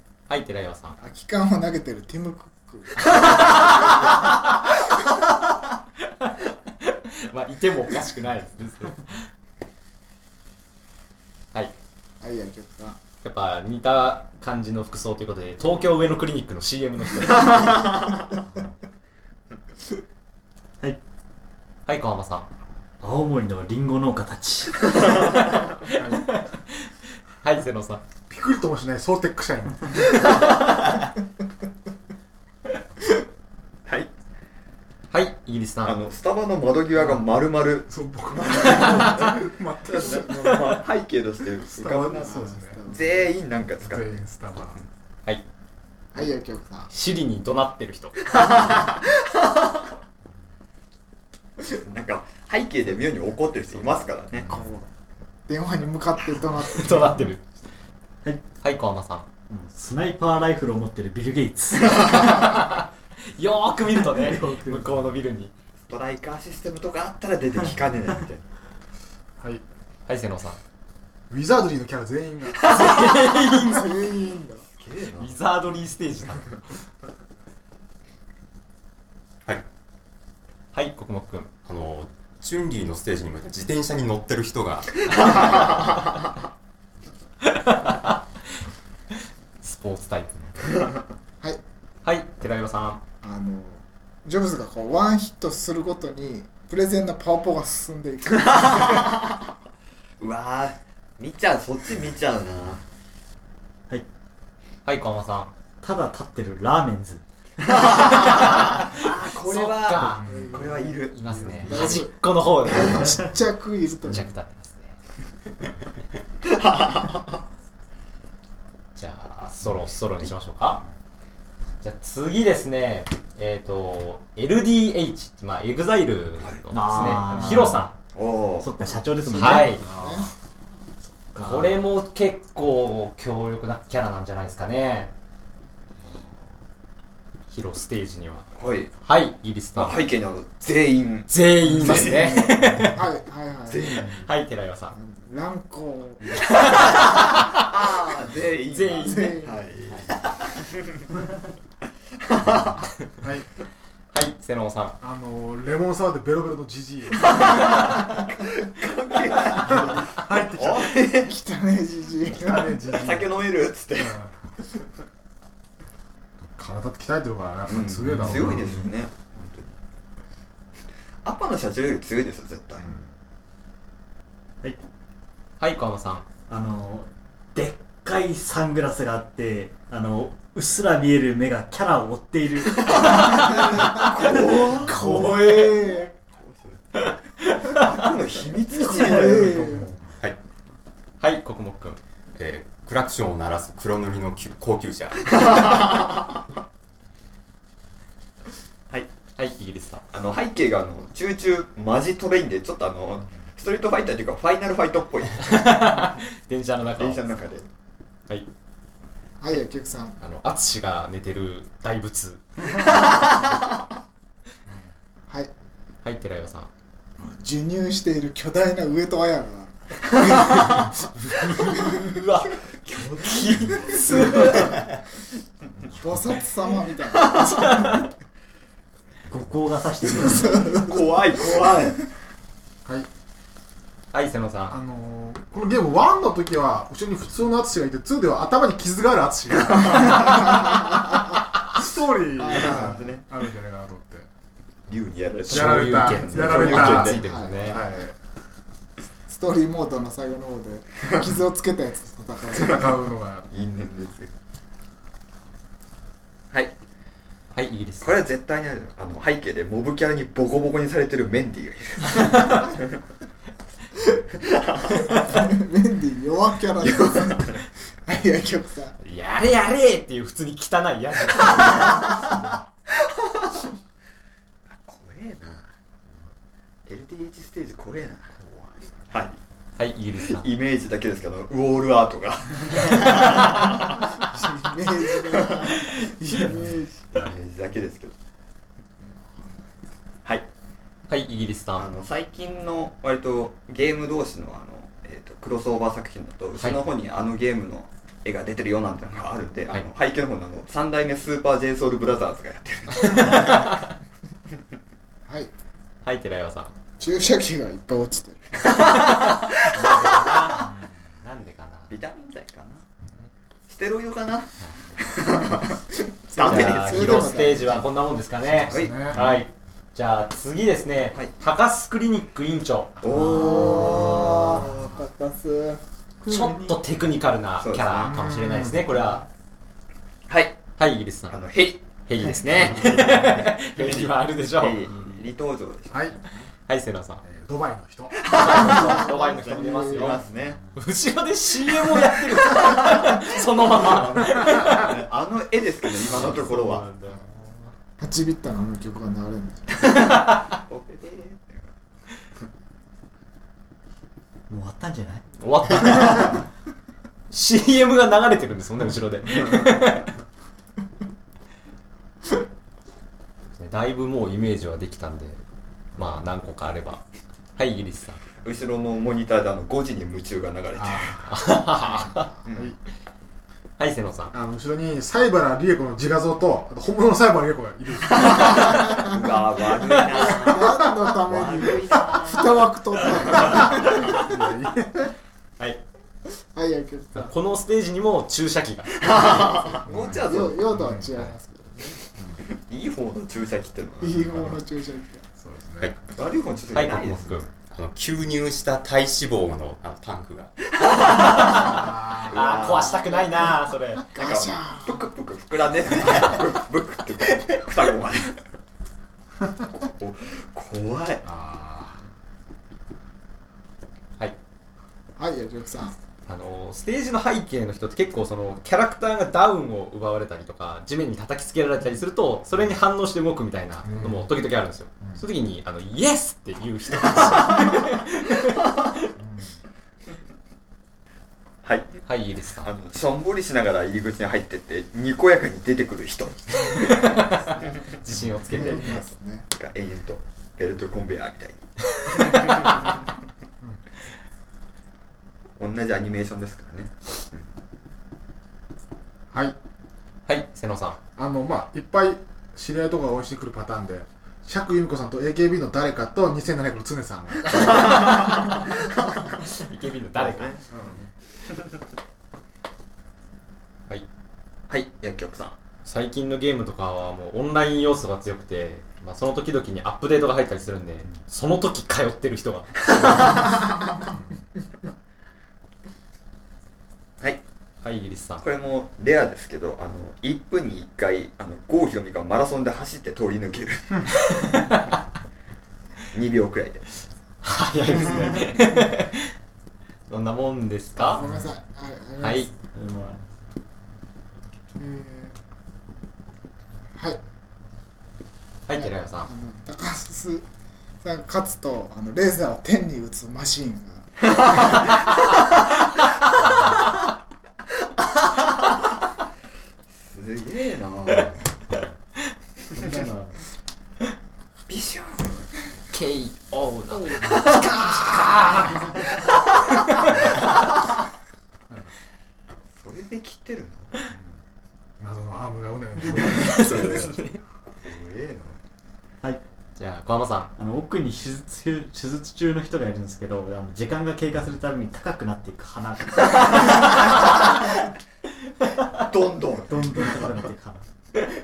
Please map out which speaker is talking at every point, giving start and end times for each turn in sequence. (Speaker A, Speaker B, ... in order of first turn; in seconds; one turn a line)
Speaker A: 0.3-1.0
Speaker B: 1.0-3.9
Speaker A: 6.8-9.2
Speaker B: 12.2-13.0
Speaker A: 13.2-17.7
Speaker A: 21.9-22.5
Speaker C: 23.0-25.3
Speaker A: 25.9-26.9
Speaker D: 25.9-26.2
Speaker A: 27.4-28.0
Speaker D: 28.3-30.2
Speaker A: 35.1-36.0
Speaker E: 35.9-44.1
Speaker D: 37.9-40.8
Speaker D: 41.7-42.8
Speaker B: 42.1-43.3
Speaker D: 43.8-44.8
Speaker B: 46.1-46.9
Speaker A: 46.9-48.5
Speaker E: 48.3-49.3
Speaker E: 51.7-54.5
Speaker B: 54.5-54.9
Speaker B: 55.5-57.2
Speaker A: 56.6-57.4
Speaker A: 58.6-59.3
Speaker C: 59.5-62.5
Speaker A: 62.0-65.5
Speaker C: 64.1-65.0
Speaker E: 65.9-68.5
Speaker A: 70.1-70.6
Speaker D: 71.3-72.6
Speaker A: 72.6-74.0
Speaker B: 73.0-74.7
Speaker E: 74.8-75.3
Speaker A: 75.2-76.6
Speaker A: 80.7-81.5
Speaker F: 81.7-85.8
Speaker A: 87.6-88.1
Speaker A: 89.6-90.8
Speaker A: 92.0-93.0
Speaker B: 93.2-99.2
Speaker E: 98.8-99.2
Speaker E: 100.2-102.8
Speaker A: 104.8-105.5
Speaker C: 105.8-108.0
Speaker E: 107.7-111.9
Speaker A: 108.6-110.3
Speaker D: 110.2-110.5
Speaker B: 110.2-114.3
Speaker A: 111.1-113.2
Speaker A: 114.1-114.9
Speaker E: 116.5-117.2
Speaker A: 119.0-120.8
Speaker A: 121.8-127.9
Speaker C: 126.7-127.9
Speaker E: 128.1-128.8
Speaker C: 128.6-129.9
Speaker A: 129.3-129.8
Speaker B: 129.5-130.3
Speaker C: 131.3-131.8
Speaker A: 131.4-135.1
Speaker A: 137.5-138.5
Speaker E: 138.6-138.9
Speaker A: 139.0-140.0
Speaker E: 139.8-142.5
Speaker A: 141.3-143.0
Speaker B: 141.9-144.1
Speaker E: 143.7-144.3
Speaker A: 144.1-144.9
Speaker B: 144.9-146.6
Speaker A: 146.3-147.7
Speaker E: 146.9-150.7
Speaker A: 148.7-150.1
Speaker B: 148.9-149.6
Speaker E: 152.2-152.8
Speaker D: 153.2-153.5
Speaker A: 154.1-155.0
Speaker D: 155.0-157.5
Speaker E: 157.2-161.4
Speaker D: 159.6-161.1
Speaker B: 161.1-162.8
Speaker D: 162.3-163.4
Speaker E: 162.9-164.2
Speaker D: 164.0-164.3
Speaker D: 166.5-168.9
Speaker E: 167.7-169.8
Speaker E: 171.2-172.9
Speaker D: 172.8-173.1
Speaker A: 175.6-176.2
Speaker C: 176.5-184.1
Speaker E: 182.9-185.1
Speaker B: 184.0-186.1
Speaker A: 184.9-185.9
Speaker C: 184.9-185.3
Speaker E: 186.3-189.8
Speaker A: 187.5-187.9
Speaker B: 188.8-189.9
Speaker D: 189.6-189.9
Speaker A: 191.2-192.0
Speaker F: 192.4-195.4
Speaker E: 195.3-196.3
Speaker A: 199.4-200.1
Speaker E: 200.1-206.1
Speaker A: 205.4-207.2
Speaker E: 207.0-207.7
Speaker B: 209.4-210.2
Speaker A: 210.2-212.8
Speaker A: 216.0-216.7
Speaker B: 217.2-220.9
Speaker B: 221.5-222.1
Speaker A: 221.8-222.5
Speaker E: 222.8-224.8
Speaker A: 223.2-224.8
Speaker B: 225.9-228.1
Speaker A: 227.4-228.1
Speaker C: 229.3-230.9
Speaker E: 230.6-232.1
Speaker A: 234.1-234.8
Speaker D: 234.7-240.8
Speaker D: 241.7-244.3
Speaker B: 242.4-243.0
Speaker E: 242.4-243.3
Speaker E: 244.9-247.2
Speaker A: 245.5-247.8
Speaker D: 245.5-248.2
Speaker B: 247.1-247.9
Speaker B: 249.3-252.9
Speaker D: 252.5-253.5
Speaker E: 253.5-254.3
Speaker A: 257.5-258.2
Speaker E: 258.0-262.9
Speaker E: 264.4-265.1
Speaker B: 265.0-269.0
Speaker E: 266.8-267.6
Speaker A: 269.0-272.1
Speaker E: 274.7-275.7
Speaker E: 276.9-278.4
Speaker E: 279.1-279.4
Speaker A: 279.8-280.5
Speaker E: 280.3-284.0
Speaker B: 284.2-287.0
Speaker E: 285.2-285.8
Speaker E: 287.1-288.1
Speaker A: 291.1-291.9
Speaker E: 291.8-303.7
Speaker A: 303.0-303.9
Speaker A: 306.0-306.7
Speaker B: 307.0-308.8
Speaker A: 309.2-311.9
Speaker E: 311.9-312.8
Speaker E: 313.7-315.8
Speaker B: 316.3-317.8
Speaker E: 316.3-317.6
Speaker A: 316.4-323.0
Speaker D: 318.6-319.3
Speaker E: 318.7-319.3
Speaker E: 323.0-324.9
Speaker C: 323.1-324.1
Speaker B: 323.2-325.8
Speaker C: 326.2-326.8
Speaker A: 326.3-329.2
Speaker E: 327.6-328.2
Speaker D: 328.1-328.9
Speaker E: 330.3-330.6
Speaker A: 330.8-331.4
Speaker E: 331.3-336.2
Speaker A: 332.1-334.9
Speaker D: 335.9-336.2
Speaker A: 336.7-337.2
Speaker D: 337.2-338.3
Speaker E: 338.2-340.6
Speaker A: 338.3-340.2
Speaker B: 338.4-340.2
Speaker A: 340.7-345.0
Speaker E: 343.7-346.9
Speaker A: 346.1-347.2
Speaker C: 346.1-346.8
Speaker B: 348.0-349.9
Speaker A: 350.1-350.5
Speaker E: 350.5-351.7
Speaker C: 354.5-355.2
Speaker A: 355.4-356.4
Speaker A: 357.3-360.1
Speaker A: 363.6-365.4
Speaker A: 366.0-367.0
Speaker A: 367.6-368.2
Speaker E: 368.4-371.2
Speaker D: 370.8-371.4
Speaker A: 371.3-372.3
Speaker E: 372.5-372.7
Speaker A: 373.8-374.3
Speaker D: 374.3-378.7
Speaker E: 378.3-383.9
Speaker B: 380.1-384.3
Speaker D: 383.3-385.1
Speaker B: 386.5-387.3
Speaker A: 387.1-389.7
Speaker E: 389.0-390.7
Speaker D: 389.9-391.2
Speaker B: 390.1-392.0
Speaker E: 392.5-394.6
Speaker B: 394.0-395.3
Speaker D: 395.4-395.9
Speaker E: 396.1-397.4
Speaker A: 396.7-397.5
Speaker F: 397.5-400.5
Speaker E: 400.8-403.6
Speaker A: 401.0-404.0
Speaker D: 401.5-402.4
Speaker E: 404.1-408.4
Speaker B: 404.1-405.1
Speaker E: 409.8-411.2
Speaker D: 411.2-412.0
Speaker B: 415.2-415.9
Speaker A: 416.3-428.7
Speaker D: 423.8-424.3
Speaker D: 429.2-429.6
Speaker E: 431.6-432.0
Speaker A: 432.1-432.7
Speaker E: 432.6-437.2
Speaker A: 436.7-439.0
Speaker B: 438.5-439.5
Speaker E: 439.6-442.6
Speaker E: 445.6-447.4
Speaker D: 449.3-449.6
Speaker A: 450.3-451.0
Speaker D: 451.2-457.7
Speaker E: 457.6-458.7
Speaker A: 459.5-460.6
Speaker E: 460.2-460.7
Speaker D: 460.7-461.0
Speaker E: 464.7-465.6
Speaker A: 465.9-473.5
Speaker A: 477.8-478.4
Speaker E: 478.4-484.1
Speaker A: 484.3-484.9
Speaker E: 486.1-486.9
Speaker A: 487.4-489.3
Speaker A: 490.1-491.2
Speaker B: 491.1-492.5
Speaker A: 492.2-492.5
Speaker C: 492.7-493.2
Speaker B: 494.8-495.4
Speaker A: 498.7-499.3
Speaker B: 498.7-500.4
Speaker B: 501.0-504.8
Speaker E: 510.1-511.4
Speaker C: 512.8-513.3
Speaker E: 514.7-515.5
Speaker A: 515.9-520.3
Speaker B: 517.1-518.0
Speaker E: 522.8-524.0
Speaker D: 525.0-527.0
Speaker A: 526.1-527.4
Speaker E: 526.5-527.0
Speaker E: 527.8-528.6
Speaker A: 529.8-530.5
Speaker C: 530.6-537.2
Speaker E: 539.0-540.3
Speaker C: 539.7-540.8